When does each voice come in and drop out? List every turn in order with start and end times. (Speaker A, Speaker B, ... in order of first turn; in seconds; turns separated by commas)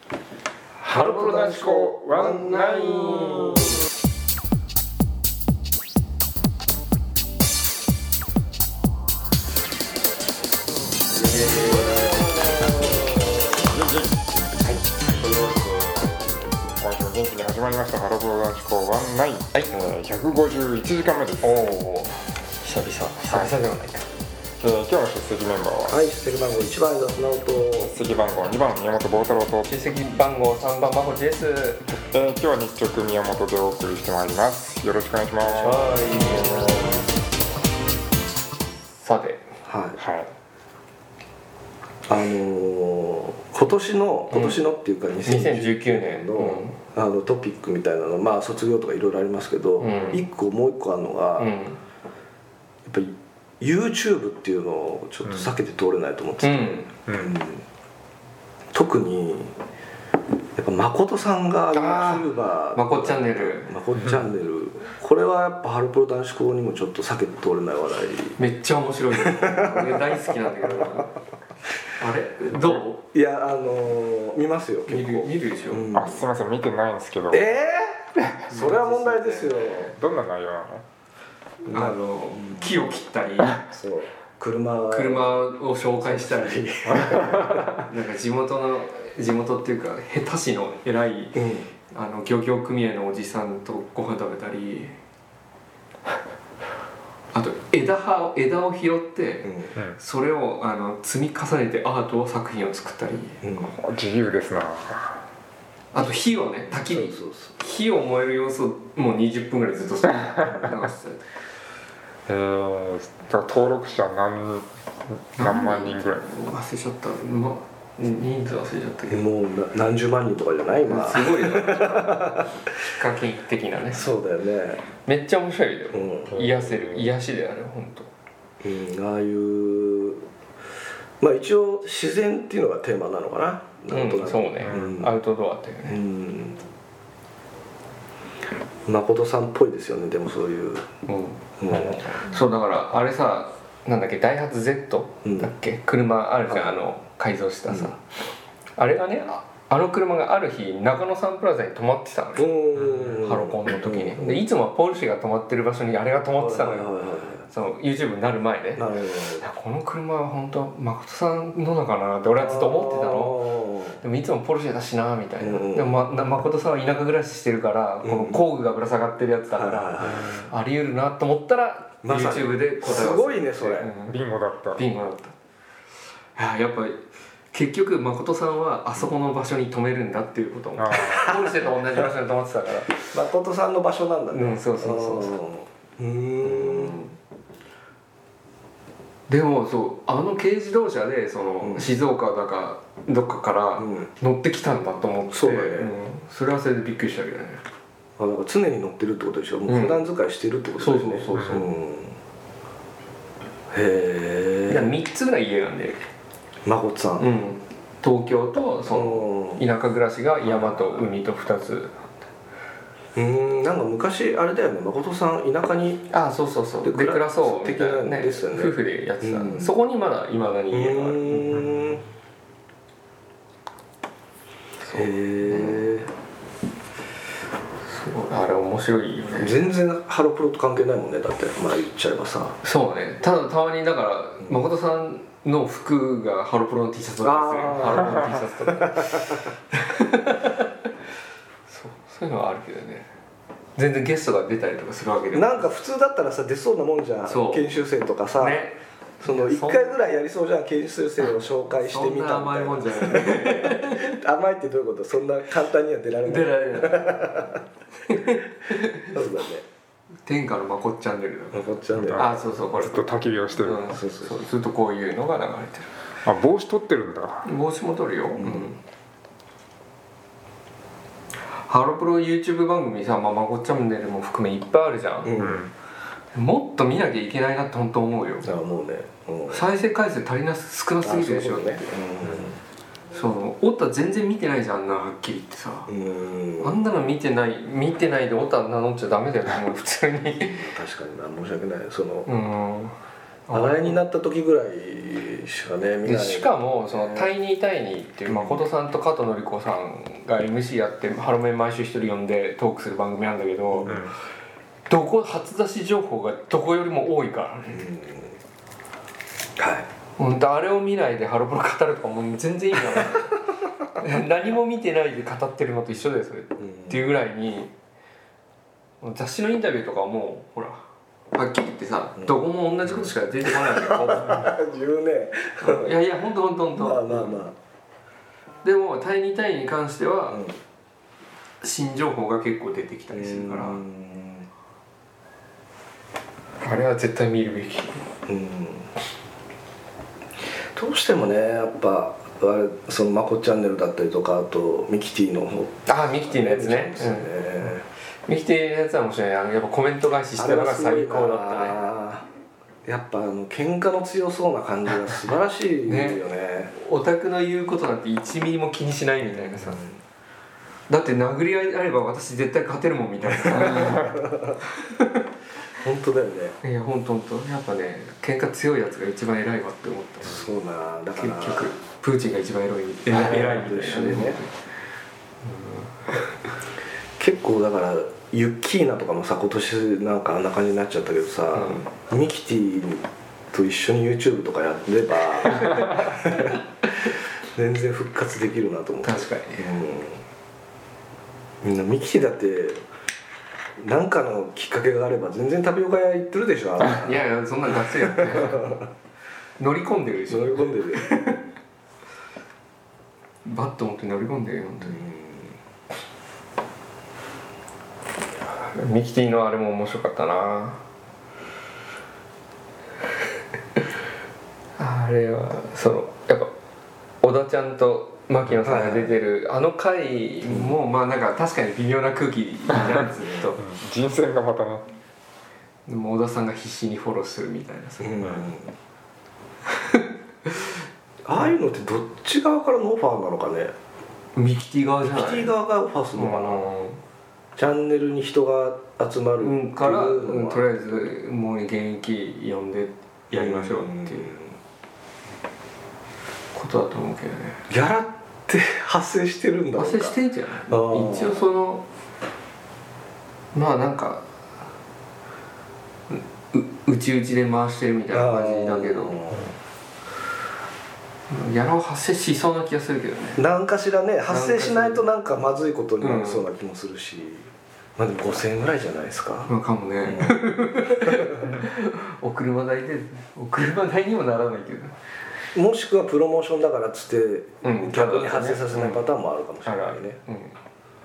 Speaker A: 0.8-3.6, Speaker B: 0.9-3.7, Speaker B: 11.3-12.2, Speaker C: 11.4-12.8, Speaker A: 11.8-12.2, Speaker A: 13.6-14.2, Speaker A: 14.9-21.6, Speaker B: 21.4-24.1, Speaker A: 23.3-23.6, Speaker A: 24.6-26.0, Speaker C: 25.9-27.9, Speaker A: 27.8-29.7, Speaker B: 29.7-31.9, Speaker A: 32.0-37.0, Speaker B: 35.4-37.1, Speaker B: 39.0-39.5, Speaker C: 39.6-40.0, Speaker A: 40.0-40.3, Speaker C: 42.1-51.5, Speaker B: 44.3-44.6, Speaker B: 45.3-46.8, Speaker B: 49.8-50.2, Speaker B: 51.4-51.8, Speaker C: 52.9-57.7, Speaker B: 56.4-56.9, Speaker A: 57.1-57.3, Speaker C: 58.7-59.6, Speaker C: 60.6-68.4, Speaker B: 61.7-63.8, Speaker B: 68.4-71.2, Speaker C: 69.1-70.9, Speaker B: 72.0-73.0, Speaker C: 73.1-76.2, Speaker B: 74.9-76.0, Speaker A: 75.9-77.5, Speaker C: 77.3-80.0, Speaker B: 78.5-79.8, Speaker A: 79.8-80.8, Speaker C: 81.7-82.7, Speaker B: 81.7-83.6, Speaker C: 83.6-85.4, Speaker B: 84.9-95.0, Speaker C: 86.0-87.9, Speaker C: 91.4-91.7, Speaker B: 97.3-103.4, Speaker C: 99.4-99.7, Speaker C: 103.4-103.8, Speaker A: 103.8-105.2, Speaker B: 105.9-111.2, Speaker C: 106.7-107.6, Speaker C: 110.4-110.7, Speaker A: 112.3-114.7, Speaker A: 115.3-116.3, Speaker B: 115.4-119.2, Speaker C: 119.1-122.7, Speaker B: 120.9-122.4, Speaker B: 122.9-124.1, Speaker C: 123.9-124.8, Speaker B: 125.0-128.1, Speaker C: 125.9-126.3, Speaker A: 126.3-127.1, Speaker C: 128.6-130.3, Speaker C: 131.2-135.1, Speaker B: 133.9-136.0, Speaker A: 134.6-135.0, Speaker C: 135.9-136.6, Speaker C: 138.9-140.9, Speaker B: 141.1-148.0, Speaker C: 141.6-142.1, Speaker C: 145.2-145.5, Speaker B: 148.8-156.9, Speaker C: 152.4-154.4, Speaker C: 156.4-157.5, Speaker B: 157.5-163.4, Speaker C: 158.8-159.4, Speaker C: 162.4-164.0, Speaker B: 164.0-174.2, Speaker C: 165.4-165.9, Speaker C: 168.0-168.4, Speaker C: 169.5-170.4, Speaker C: 172.0-173.9, Speaker A: 174.1-174.8, Speaker B: 174.8-175.4, Speaker B: 176.4-177.0, Speaker B: 177.5-183.0, Speaker A: 180.8-181.5, Speaker C: 181.0-181.5, Speaker C: 183.0-187.0, Speaker B: 184.3-185.3, Speaker B: 186.4-187.2, Speaker B: 189.3-197.6, Speaker C: 191.6-191.9, Speaker C: 193.8-194.1, Speaker C: 195.3-196.0, Speaker C: 198.2-202.2, Speaker B: 199.7-200.0, Speaker B: 200.8-201.7, Speaker A: 201.3-201.6, Speaker C: 203.7-204.9, Speaker B: 204.7-206.0, Speaker C: 206.7-207.3, Speaker B: 207.2-212.1, Speaker C: 208.9-209.6, Speaker C: 210.4-211.0, Speaker C: 213.2-216.1, Speaker B: 216.1-221.8, Speaker C: 216.8-219.7, Speaker C: 220.7-222.0, Speaker B: 224.9-225.9, Speaker C: 224.9-226.1, Speaker B: 227.8-229.6, Speaker C: 229.4-232.6, Speaker B: 232.6-240.7, Speaker C: 237.2-239.5, Speaker B: 241.7-243.1, Speaker B: 243.8-245.7, Speaker C: 245.3-248.6, Speaker B: 247.3-247.7, Speaker B: 248.4-249.9, Speaker C: 249.2-257.6, Speaker B: 251.2-254.2, Speaker B: 256.2-257.5, Speaker B: 258.1-259.2, Speaker C: 259.0-259.6, Speaker B: 260.3-265.9, Speaker C: 261.5-262.3, Speaker A: 261.9-263.9, Speaker C: 263.8-264.3, Speaker A: 266.2-267.5, Speaker B: 267.4-268.8, Speaker C: 268.4-268.6, Speaker B: 271.7-275.3, Speaker C: 275.2-275.6, Speaker A: 275.4-275.7, Speaker B: 276.3-278.5, Speaker C: 278.4-279.7, Speaker B: 279.5-281.9, Speaker C: 281.0-282.6, Speaker B: 283.1-285.9, Speaker C: 285.9-286.8, Speaker B: 286.6-290.6, Speaker C: 290.4-292.3, Speaker B: 292.3-292.9, Speaker B: 293.5-294.0, Speaker C: 293.5-297.3, Speaker B: 296.1-304.0, Speaker C: 298.3-298.7, Speaker C: 303.7-304.1, Speaker A: 303.8-304.1, Speaker B: 304.9-307.9, Speaker C: 307.7-308.4, Speaker C: 309.6-309.9, Speaker B: 310.2-313.4, Speaker C: 312.9-313.2, Speaker B: 314.0-317.7, Speaker C: 316.6-317.1, Speaker B: 319.0-324.5, Speaker C: 322.2-322.4, Speaker C: 323.4-325.9, Speaker B: 325.6-327.4, Speaker C: 326.8-327.6, Speaker B: 328.6-330.4, Speaker C: 330.3-330.6, Speaker B: 331.6-333.8, Speaker C: 333.1-334.5, Speaker B: 336.6-338.1, Speaker C: 338.3-338.9, Speaker C: 340.8-347.9, Speaker B: 345.9-347.4, Speaker B: 348.3-351.8, Speaker C: 350.4-352.3, Speaker C: 352.9-356.7, Speaker B: 355.9-359.8, Speaker C: 359.3-360.0, Speaker B: 360.9-364.2, Speaker C: 363.3-364.6, Speaker B: 364.8-365.2, Speaker C: 365.7-366.6, Speaker B: 366.6-370.5, Speaker C: 370.2-371.7, Speaker B: 371.2-374.6, Speaker C: 373.1-374.4, Speaker B: 375.4-376.3, Speaker C: 377.2-390.2, Speaker B: 381.5-381.9, Speaker B: 385.5-385.9, Speaker B: 389.0-389.7, Speaker C: 391.6-392.8, Speaker C: 393.8-398.9, Speaker B: 396.8-398.8, Speaker B: 399.6-401.4, Speaker C: 400.3-401.1, Speaker B: 403.4-405.1, Speaker C: 404.8-405.6, Speaker B: 408.6-410.8, Speaker B: 414.8-416.5, Speaker B: 417.2-423.6, Speaker C: 418.6-419.1, Speaker C: 420.5-420.8, Speaker C: 423.2-423.5, Speaker A: 423.6-424.9, Speaker B: 425.9-428.3, Speaker C: 428.0-428.8, Speaker B: 429.7-430.8, Speaker C: 431.2-433.8, Speaker B: 434.4-435.6, Speaker C: 435.0-436.7, Speaker B: 436.1-437.0, Speaker C: 437.6-441.1, Speaker B: 439.4-444.3, Speaker C: 443.3-444.6, Speaker B: 446.5-447.6, Speaker C: 447.7-450.2, Speaker B: 449.8-451.9, Speaker C: 450.7-451.4, Speaker B: 453.5-454.3, Speaker B: 456.1-459.2, Speaker C: 458.1-459.5, Speaker B: 461.3-463.4, Speaker C: 463.4-469.5, Speaker B: 464.3-465.1, Speaker B: 466.0-466.5, Speaker B: 469.5-475.0, Speaker C: 470.0-471.3, Speaker C: 475.6-480.2, Speaker B: 477.6-479.1, Speaker B: 479.7-480.6